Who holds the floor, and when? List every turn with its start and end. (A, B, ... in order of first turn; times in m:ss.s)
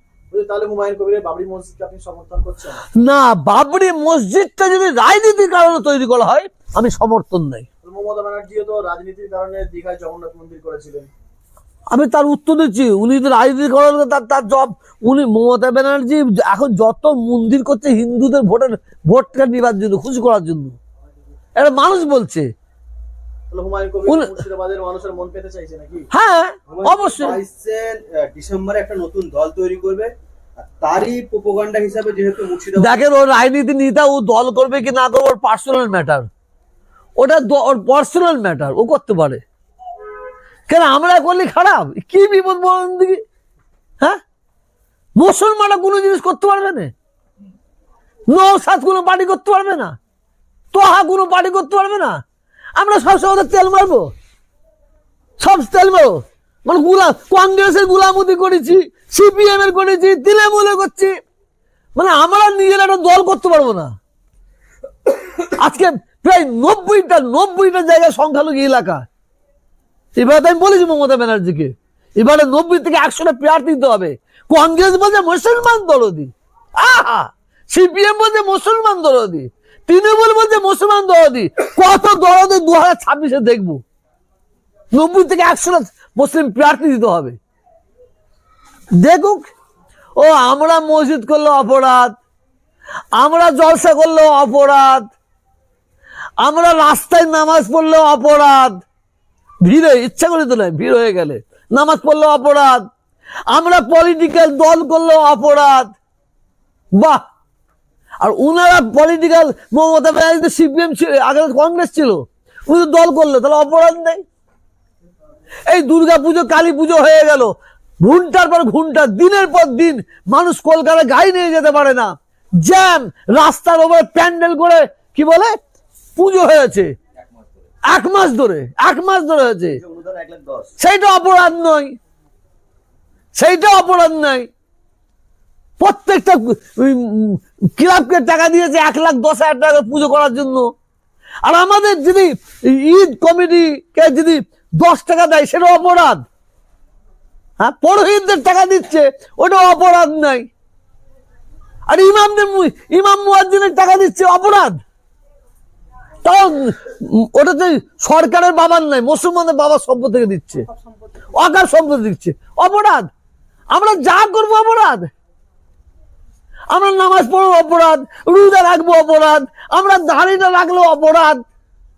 0:00.3-0:02.8 A
0:03.0-0:07.7 B
0:07.8-0:11.1 A
0:11.9-0:20.8 B
0:21.6-0:22.5 B
0:23.5-0:26.0 A
0:24.1-0:24.3 B
0:26.1-0:27.4 B
0:26.7-0:33.0 C
0:32.8-0:36.3 B
0:37.2-0:39.4 B
0:40.7-0:43.2 B
0:45.2-0:46.9 B
0:48.3-0:49.9 B
0:50.7-0:52.2 B
0:52.8-0:54.1 B
0:55.4-1:01.1 B
1:01.9-1:03.9 B
1:05.4-1:09.0 B
1:10.2-1:23.8 B
1:24.9-1:27.4 B
1:29.0-1:29.5 B
1:30.2-1:32.2 B
1:33.2-1:35.0 B
1:36.4-1:38.8 B
1:39.6-1:42.8 B
1:43.5-1:45.9 B
1:48.2-1:54.2 B
1:55.7-1:57.5 B
1:58.0-2:05.5 B
2:06.2-2:06.9 B
2:07.9-2:09.8 B
2:09.8-2:10.7 C
2:10.8-2:11.9 B
2:13.4-2:14.5 B
2:15.8-2:20.7 B
2:21.4-2:26.2 B
2:27.6-2:30.4 B
2:31.9-2:34.8 B
2:36.2-2:40.6 B
2:41.4-2:43.1 B
2:43.7-2:45.1 B
2:46.7-2:51.4 B